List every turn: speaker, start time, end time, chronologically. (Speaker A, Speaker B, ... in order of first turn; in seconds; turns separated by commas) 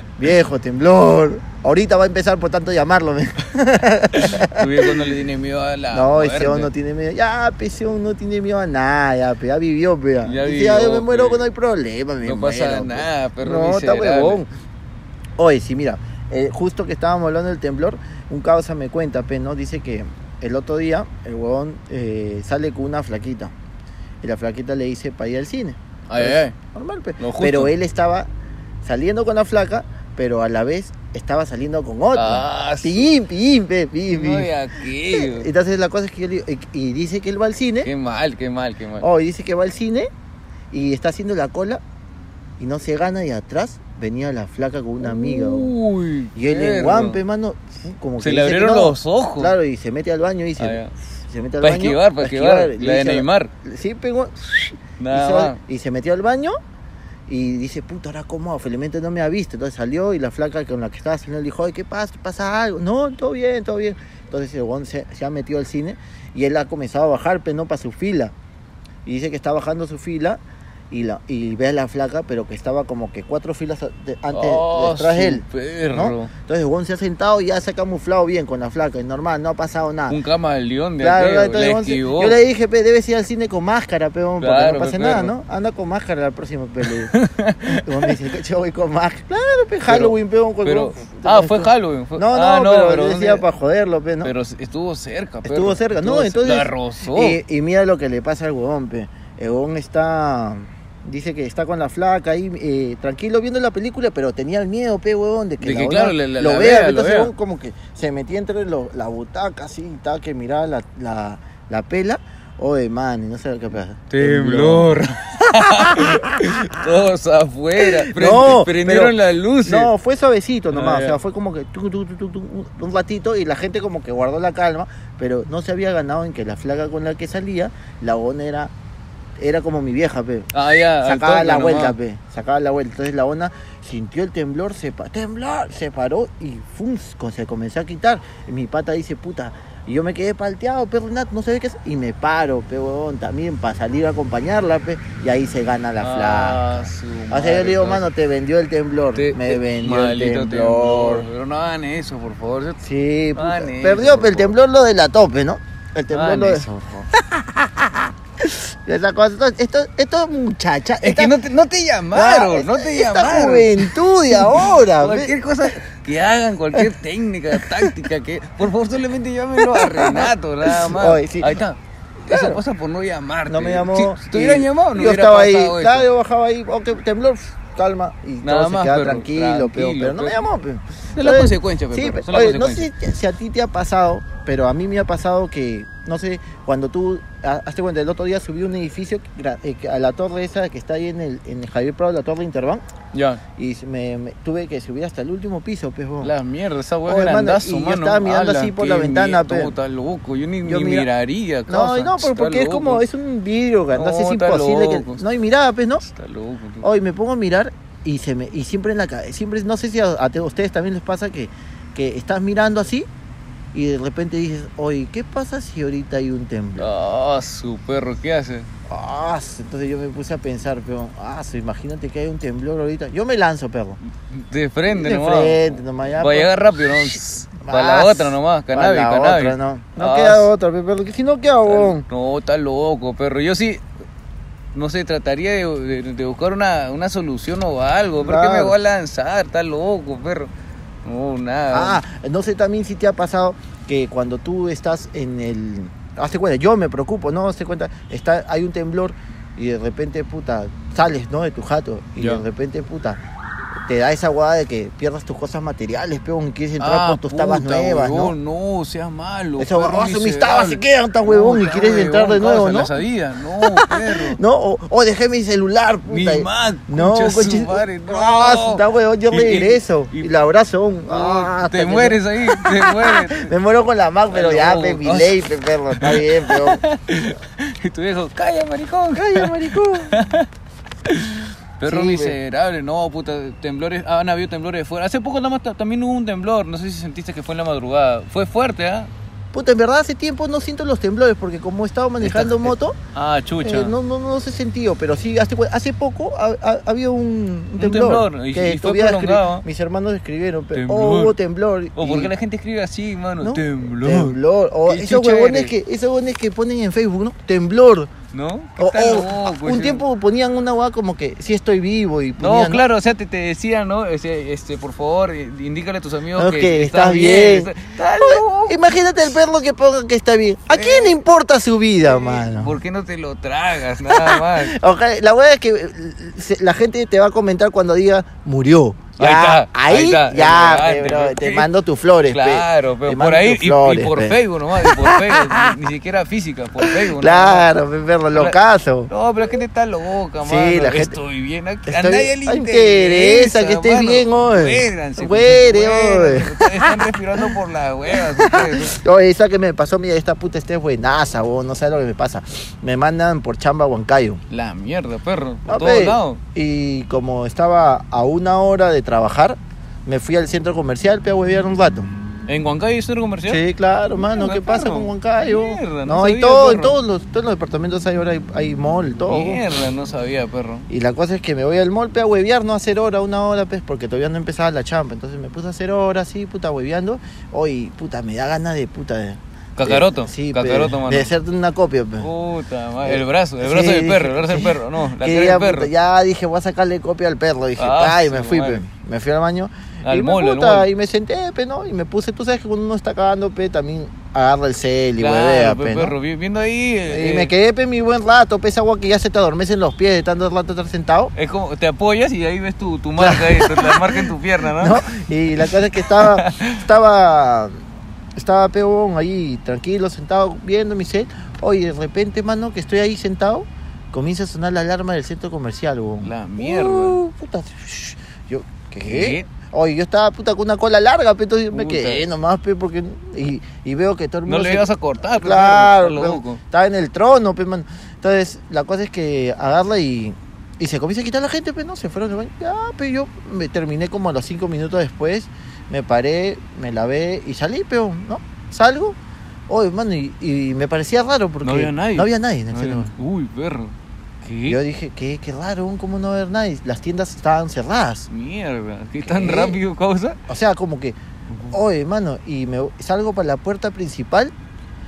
Speaker A: 0.2-5.1, Speaker B: 4.1-6.7, Speaker A: 5.9-14.5, Speaker B: 10.2-11.5, Speaker B: 12.2-14.4, Speaker A: 15.4-23.5, Speaker A: 24.2-28.3, Speaker B: 26.1-26.5, Speaker B: 27.2-27.7, Speaker A: 28.8-34.5, Speaker B: 32.1-33.1, Speaker B: 34.1-35.5, Speaker A: 35.1-37.9, Speaker B: 37.8-39.1, Speaker A: 39.0-40.1, Speaker A: 40.7-41.8, Speaker A: 42.6-45.7, Speaker B: 45.0-47.2, Speaker A: 46.3-56.5, Speaker B: 48.2-49.5, Speaker B: 50.6-50.9, Speaker B: 51.6-53.5, Speaker B: 55.0-55.6, Speaker A: 57.3-68.3, Speaker A: 69.0-80.2, Speaker B: 74.3-76.3, Speaker B: 80.1-82.4, Speaker A: 81.0-87.1, Speaker B: 84.4-85.3, Speaker B: 86.9-88.1, Speaker A: 87.6-94.3, Speaker B: 89.9-93.4, Speaker B: 94.2-97.4, Speaker A: 95.4-116.9, Speaker B: 105.6-107.3, Speaker B: 114.1-119.9, Speaker A: 117.8-128.7, Speaker B: 120.7-121.2, Speaker A: 129.4-130.5, Speaker B: 130.5-132.0, Speaker A: 131.0-151.2, Speaker B: 146.0-148.1, Speaker B: 149.1-152.8, Speaker A: 152.8-161.3, Speaker B: 153.3-154.5, Speaker B: 156.1-156.7, Speaker B: 161.0-176.1, Speaker A: 162.1-165.4, Speaker A: 167.5-167.9, Speaker A: 169.6-171.6, Speaker A: 172.2-172.6, Speaker A: 173.5-192.8, Speaker B: 178.4-180.4, Speaker B: 181.1-182.9, Speaker B: 193.1-193.4, Speaker A: 193.6-196.3, Speaker B: 196.2-203.1, Speaker A: 197.1-199.7, Speaker A: 200.6-201.1, Speaker A: 201.7-206.0, Speaker B: 203.9-205.2, Speaker B: 206.0-206.9, Speaker A: 206.8-213.1, Speaker A: 213.7-216.9, Speaker B: 216.8-218.7, Speaker A: 218.9-224.0, Speaker B: 224.2-230.5, Speaker A: 224.9-232.0, Speaker B: 231.7-233.8, Speaker B: 234.7-240.5, Speaker A: 238.2-238.8, Speaker B: 241.0-242.0, Speaker A: 241.7-253.2, Speaker B: 252.2-252.4, Speaker A: 253.8-258.3, Speaker B: 256.8-264.4, Speaker A: 259.6-263.0, Speaker A: 263.6-276.8, Speaker B: 266.1-270.3, Speaker B: 271.1-273.5, Speaker B: 274.3-275.4, Speaker B: 275.9-280.5, Speaker A: 279.1-280.2, Speaker B: 281.1-289.1, Speaker A: 281.8-282.4, Speaker A: 289.5-293.0, Speaker B: 292.2-293.9, Speaker A: 293.6-302.3, Speaker B: 297.8-299.6, Speaker B: 300.7-301.3, Speaker B: 301.9-305.7, Speaker A: 303.4-308.1, Speaker B: 308.3-310.0, Speaker A: 308.8-312.8, Speaker B: 312.4-318.8, Speaker A: 316.4-322.7, Speaker B: 320.7-321.2, Speaker B: 322.0-324.8, Speaker A: 324.1-335.7, Speaker B: 329.2-331.7, Speaker B: 332.3-337.7, Speaker A: 336.8-339.1, Speaker B: 338.3-338.6, Speaker B: 339.1-348.9, Speaker A: 340.4-341.1, Speaker A: 341.9-347.4, Speaker A: 348.1-354.4, Speaker B: 354.5-356.4, Speaker A: 355.6-362.1, Speaker B: 362.5-363.6, Speaker A: 363.4-369.6, Speaker B: 364.1-367.0, Speaker B: 369.3-370.9, Speaker A: 370.9-382.3, Speaker B: 379.8-381.3, Speaker B: 382.2-385.9, Speaker A: 383.0-396.1, Speaker B: 387.8-388.8, Speaker B: 390.0-390.9, Speaker B: 395.2-397.5, Speaker A: 397.1-401.3, Speaker B: 401.3-405.1, Speaker A: 403.2-407.7, Speaker B: 406.0-406.8, Speaker A: 408.4-439.1, Speaker B: 416.2-417.2, Speaker B: 419.0-419.5, Speaker B: 421.7-422.2, Speaker B: 424.4-426.6, Speaker A: 439.7-443.1, Speaker B: 441.6-444.8, Speaker A: 444.7-448.3, Speaker B: 448.3-450.4, Speaker A: 449.2-449.8, Speaker A: 450.5-451.2, Speaker A: 451.7-454.5